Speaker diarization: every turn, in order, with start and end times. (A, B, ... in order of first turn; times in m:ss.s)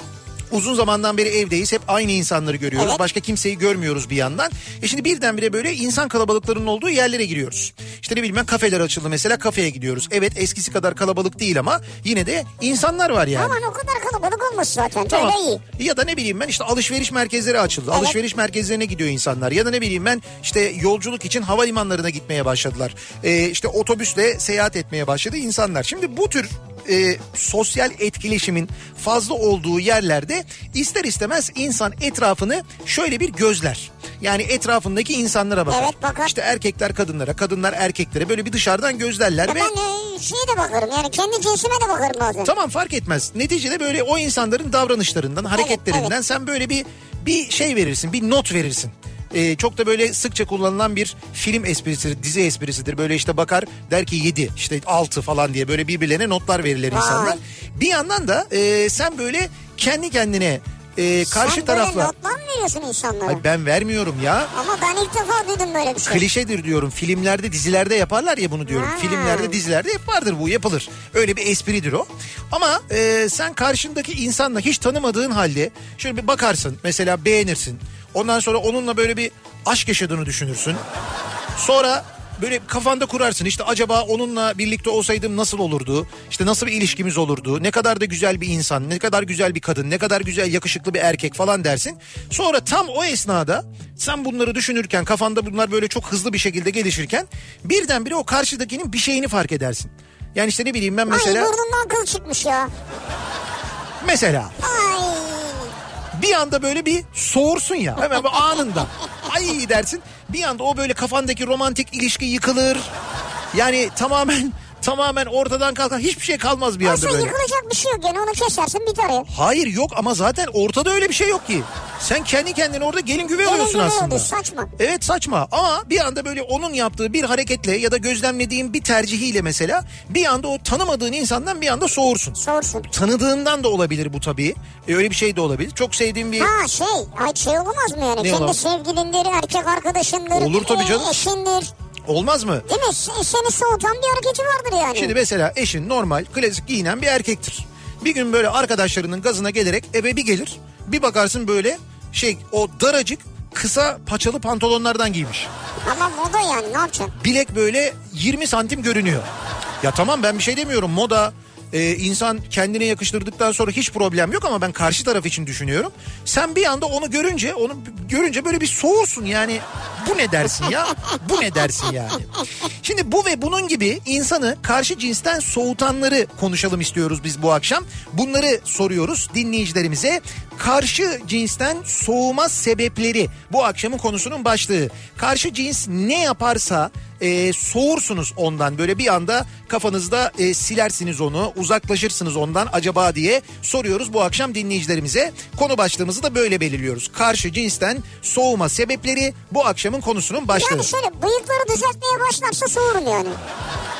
0:00.5-0:13.6 A
0:02.8-0:03.0 B
0:13.4-0:15.6 B
0:15.1-0:39.7 A
0:17.9-0:18.2 B
0:35.7-0:36.3 B
0:39.4-0:42.5 B
0:42.4-1:02.1 A
0:45.5-0:46.1 B
0:56.9-0:57.4 B
1:01.3-1:03.4 B
1:03.3-1:04.5 A
1:04.5-1:06.2 B
1:06.1-1:20.8 A
1:08.7-1:09.6 B
1:21.6-1:41.5 A
1:41.1-1:42.7 B
1:44.0-1:44.5 A
1:44.6-1:45.7 B
1:46.1-1:52.9 A
1:53.5-1:57.4 A
1:56.8-1:59.3 B
1:59.3-2:12.4 A
2:03.4-2:04.7 B
2:12.4-2:12.9 B
2:12.9-2:16.5 A
2:16.4-2:21.7 B
2:18.2-2:18.6 A
2:20.3-2:21.1 A
2:22.1-2:22.6 A
2:22.7-2:25.1 B
2:24.9-2:35.5 A
2:35.8-2:37.1 B
2:37.2-2:39.3 A
2:39.8-2:52.3 A
2:52.8-3:20.9 A
3:20.5-3:23.4 B